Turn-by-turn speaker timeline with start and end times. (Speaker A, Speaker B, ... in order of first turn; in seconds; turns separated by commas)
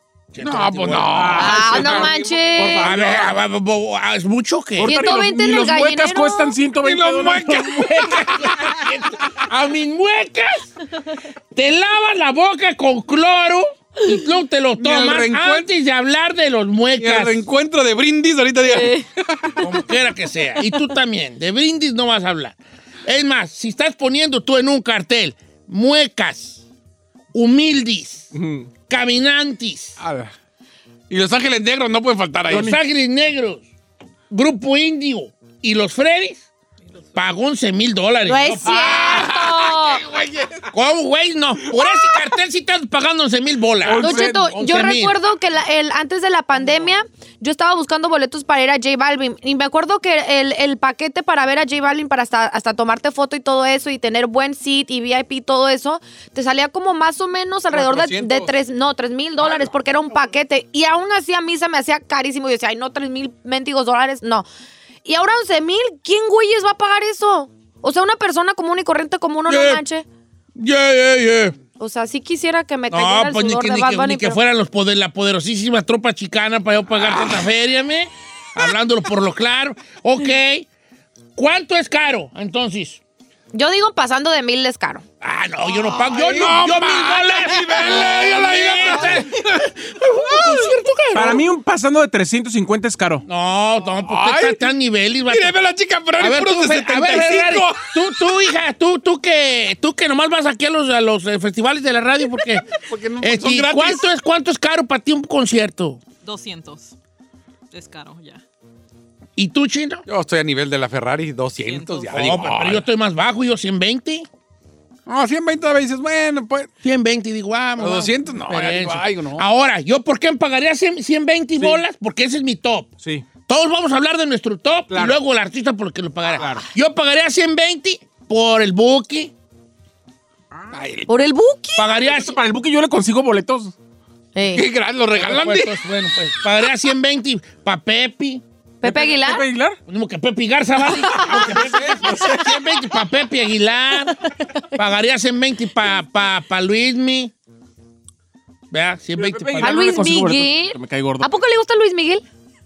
Speaker A: 0.3-2.0, Speaker B: 0.4-2.1, Speaker C: 1.1-3.4, Speaker D: 1.4-2.9, Speaker A: 2.8-4.9, Speaker C: 4.8-7.7, Speaker D: 4.9-6.6, Speaker B: 6.8-8.4, Speaker A: 7.3-10.7, Speaker A: 11.5-17.4, Speaker B: 14.8-15.7, Speaker B: 17.0-19.7, Speaker D: 18.6-19.0, Speaker A: 19.6-26.6, Speaker A: 27.3-28.3, Speaker C: 28.3-28.7, Speaker A: 28.9-30.0, Speaker B: 30.0-30.3, Speaker B: 31.1-32.8, Speaker C: 32.5-32.8, Speaker A: 32.5-33.7, Speaker A: 34.3-36.5, Speaker A: 37.1-39.1, Speaker D: 38.2-40.0, Speaker B: 38.7-40.6, Speaker A: 40.7-45.2, Speaker C: 43.8-44.6, Speaker D: 44.0-64.5, Speaker B: 57.7-58.5, Speaker D: 65.0-70.0, Speaker A: 69.5-69.8, Speaker A: 70.5-71.6, Speaker D: 71.8-74.4, Speaker A: 72.9-80.7, Speaker B: 77.0-77.4, Speaker A: 81.3-83.0, Speaker D: 83.5-85.0, Speaker A: 85.2-91.4, Speaker B: 85.8-90.8, Speaker C: 91.1-93.2, Speaker A: 93.2-95.6, Speaker B: 94.0-94.7, Speaker B: 95.3-98.3, Speaker A: 96.2-102.7, Speaker B: 102.7-104.1, Speaker A: 103.2-106.0, Speaker E: 106.2-107.0, Speaker E: 107.7-108.4, Speaker A: 109.4-110.0, Speaker B: 110.1-112.9, Speaker E: 111.6-112.3, Speaker A: 112.1-114.3, Speaker B: 115.1-116.7, Speaker A: 116.8-122.9, Speaker B: 117.8-119.5, Speaker C: 121.6-121.8, Speaker A: 123.5-129.3, Speaker C: 124.9-125.2, Speaker C: 126.4-126.6, Speaker C: 130.5-130.8, Speaker B: 130.7-131.1, Speaker D: 131.1-131.9, Speaker A: 131.8-132.3, Speaker C: 132.0-133.7, Speaker D: 134.3-134.7, Speaker B: 134.5-135.7, Speaker A: 135.2-138.4, Speaker D: 138.8-139.4, Speaker C: 138.8-139.8, Speaker A: 139.9-144.2, Speaker C: 141.1-142.4, Speaker A: 144.8-147.3, Speaker A: 148.7-150.1, Speaker C: 149.2-151.3, Speaker D: 149.6-152.2